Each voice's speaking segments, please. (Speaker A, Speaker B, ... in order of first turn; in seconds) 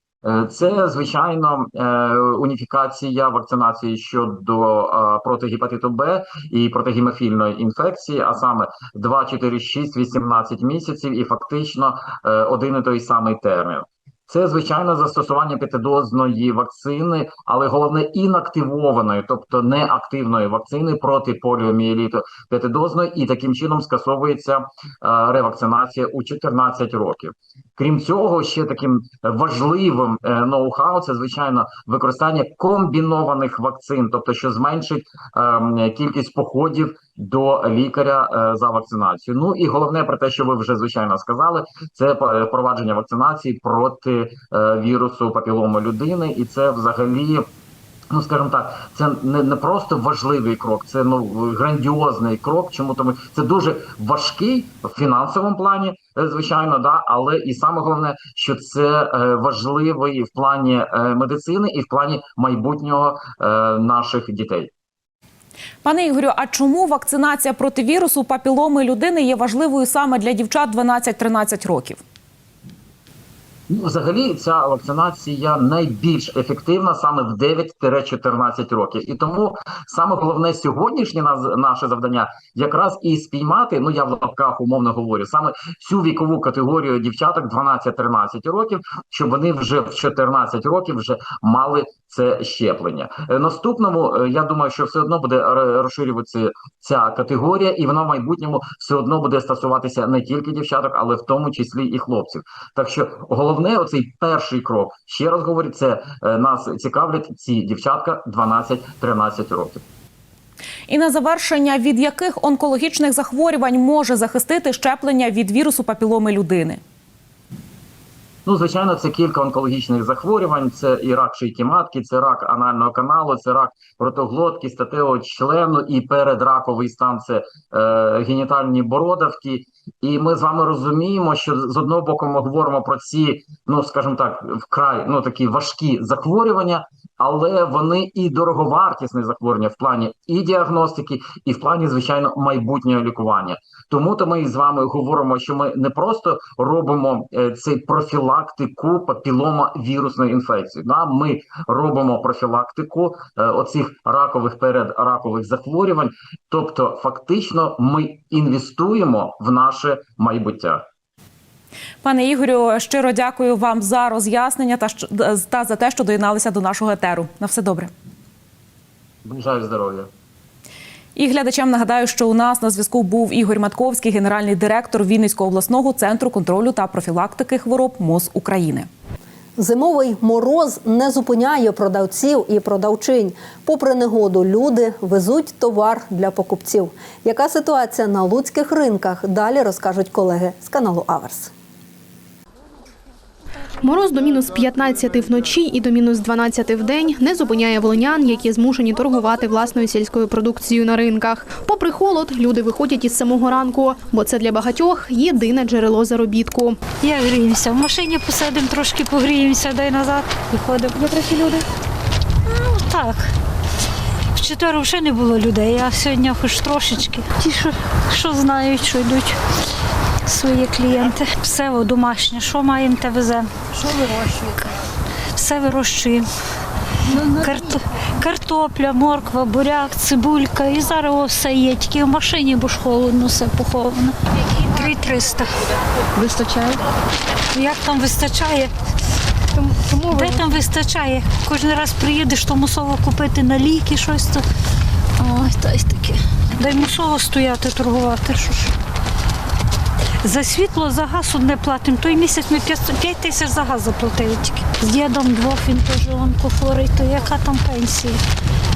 Speaker A: 0.2-47.4, 48.1-64.7, 73.7-109.8, 118.5-160.8, 169.2-170.1
Speaker B: 65.8-72.0, 110.9-116.8, 162.0-167.9, 171.2-178.9
Speaker C: 179.6-191.5
Speaker D: 193.8-206.8
Speaker E: 207.0-211.0, 212.5-213.2, 214.3-219.4, 220.3-224.7, 225.3-226.2, 227.1-234.1, 234.7-235.5, 237.5-238.7, 240.0-244.4, 245.2-248.7, 250.2-258.2